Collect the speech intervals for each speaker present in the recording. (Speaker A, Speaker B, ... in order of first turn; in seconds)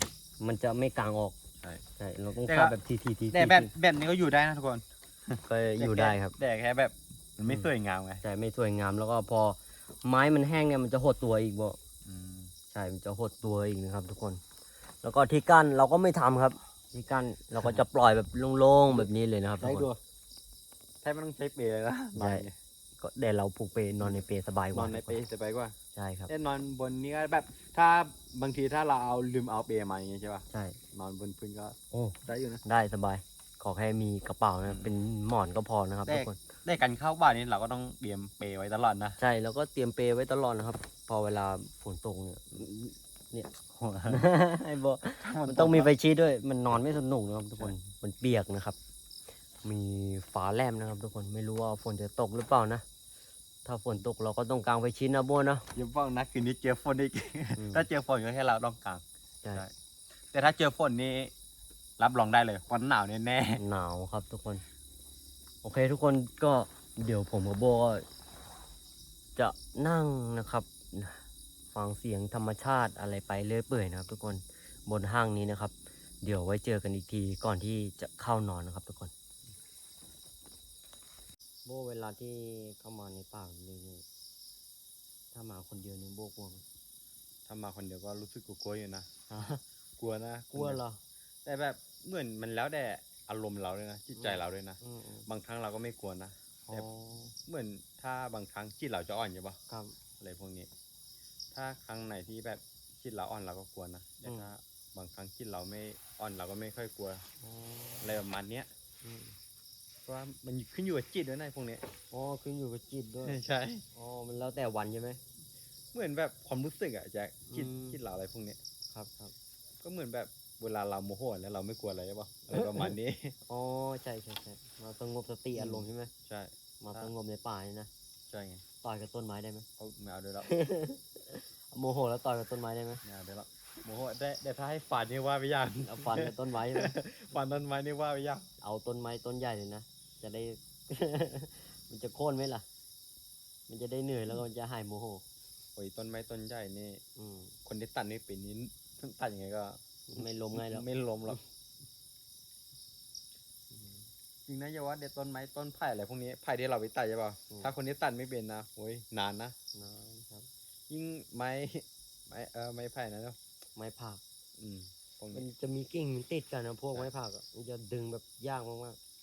Speaker A: 0.4-1.4, 2.0-3.7, 5.5-6.4, 8.2-11.8, 12.7-14.4, 15.0-19.9, 22.2-22.5, 23.0-25.2, 25.9-26.3, 30.5-30.8, 31.9-36.4, 39.2-43.5, 44.1-48.8, 49.6-52.8, 53.6-55.7, 57.6-57.9, 63.6-64.6, 65.6-68.1, 69.4-79.1, 81.7-84.0, 85.3-86.6, 89.3-89.6, 90.5-91.0, 94.2-95.3, 96.7-97.3, 99.7-100.0, 107.4-108.2, 109.0-109.4, 112.1-113.4, 113.9-115.2, 117.5-118.0, 118.9-119.3, 123.5-126.1, 126.8-127.9, 128.8-129.7, 130.4-133.0, 135.8-136.9, 138.6-142.7, 143.7-145.2, 147.2-147.6, 150.1-151.4, 153.7-154.1, 159.7-160.5, 163.8-164.2, 165.3-169.0
Speaker B: 2.5-2.8, 3.3-8.2, 12.0-12.5, 19.6-20.0, 21.0-22.6, 24.7-25.8, 26.3-32.6, 34.7-34.9, 36.1-39.2, 43.7-44.2, 45.2-45.9, 55.8-59.7, 60.3-61.3, 62.0-63.6, 87.5-89.1, 90.0-90.8, 91.5-96.9, 97.4-99.6, 100.2-100.7, 101.5-107.2, 108.0-108.7, 110.0-111.8, 113.2-113.8, 115.9-118.6, 119.8-123.4, 125.5-127.1, 128.3-128.6, 129.8-130.5, 133.0-138.5, 145.8-147.0, 147.7-151.4, 154.5-159.6, 160.9-163.4, 164.6-165.5